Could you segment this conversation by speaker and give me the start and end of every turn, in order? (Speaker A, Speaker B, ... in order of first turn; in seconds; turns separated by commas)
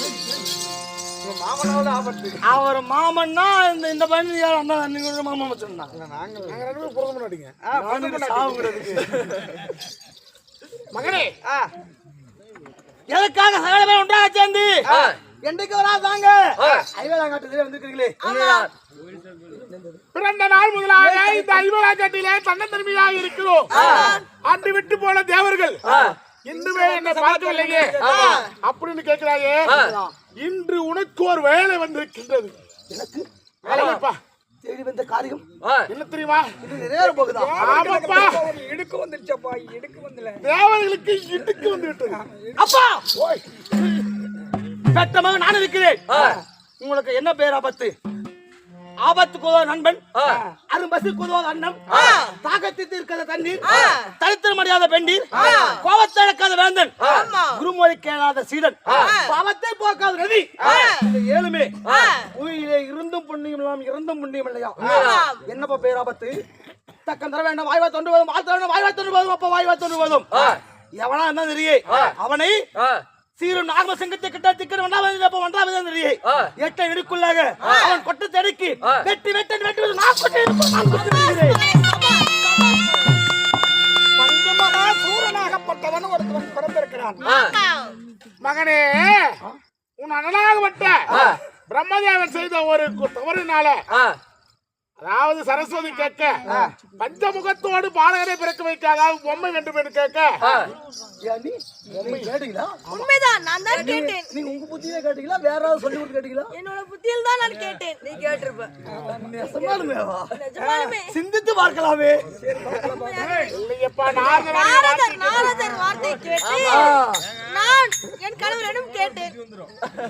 Speaker A: 1.2-2.4, Speaker B: 2.4-5.9, Speaker A: 5.9-6.6, Speaker C: 6.5-8.5, Speaker A: 7.7-8.8, Speaker B: 7.7-9.2, Speaker C: 10.9-11.3, Speaker B: 13.1-18.7, Speaker D: 18.2-18.7, Speaker B: 19.5-20.0, Speaker C: 20.1-25.8, Speaker B: 20.9-21.7, Speaker D: 23.7-24.2, Speaker B: 23.7-24.2, Speaker B: 25.8-26.1, Speaker C: 26.4-29.8, Speaker A: 26.6-28.3, Speaker D: 28.0-28.5, Speaker B: 29.7-30.1, Speaker C: 30.4-32.5, Speaker B: 32.9-34.0, Speaker C: 33.7-34.1, Speaker B: 34.6-35.5, Speaker C: 35.8-36.5, Speaker B: 36.6-37.7, Speaker A: 37.0-40.4, Speaker C: 37.6-38.5, Speaker C: 40.4-42.2, Speaker A: 42.1-42.6, Speaker B: 42.6-43.2, Speaker B: 44.9-47.9, Speaker B: 49.0-66.3, Speaker D: 51.9-52.3, Speaker D: 53.6-54.1, Speaker D: 55.3-55.8, Speaker D: 57.0-57.6, Speaker D: 58.9-59.3, Speaker D: 60.6-61.0, Speaker D: 61.8-62.3, Speaker D: 64.8-65.4, Speaker B: 67.0-72.7, Speaker B: 73.4-81.6, Speaker D: 77.6-78.0, Speaker D: 80.7-83.1, Speaker A: 84.2-87.2, Speaker D: 87.2-88.0, Speaker C: 88.4-89.3, Speaker C: 90.0-93.8, Speaker B: 91.1-91.4, Speaker C: 95.0-96.5, Speaker B: 96.5-96.7, Speaker C: 97.0-100.5, Speaker B: 101.2-103.0, Speaker C: 101.9-102.3, Speaker D: 102.9-104.3, Speaker B: 103.7-106.5, Speaker D: 106.5-108.7, Speaker B: 109.1-112.3, Speaker D: 109.3-109.8, Speaker D: 110.3-111.1, Speaker A: 112.4-113.2, Speaker D: 112.8-113.6, Speaker C: 113.5-115.7, Speaker D: 114.1-119.4, Speaker B: 116.6-117.2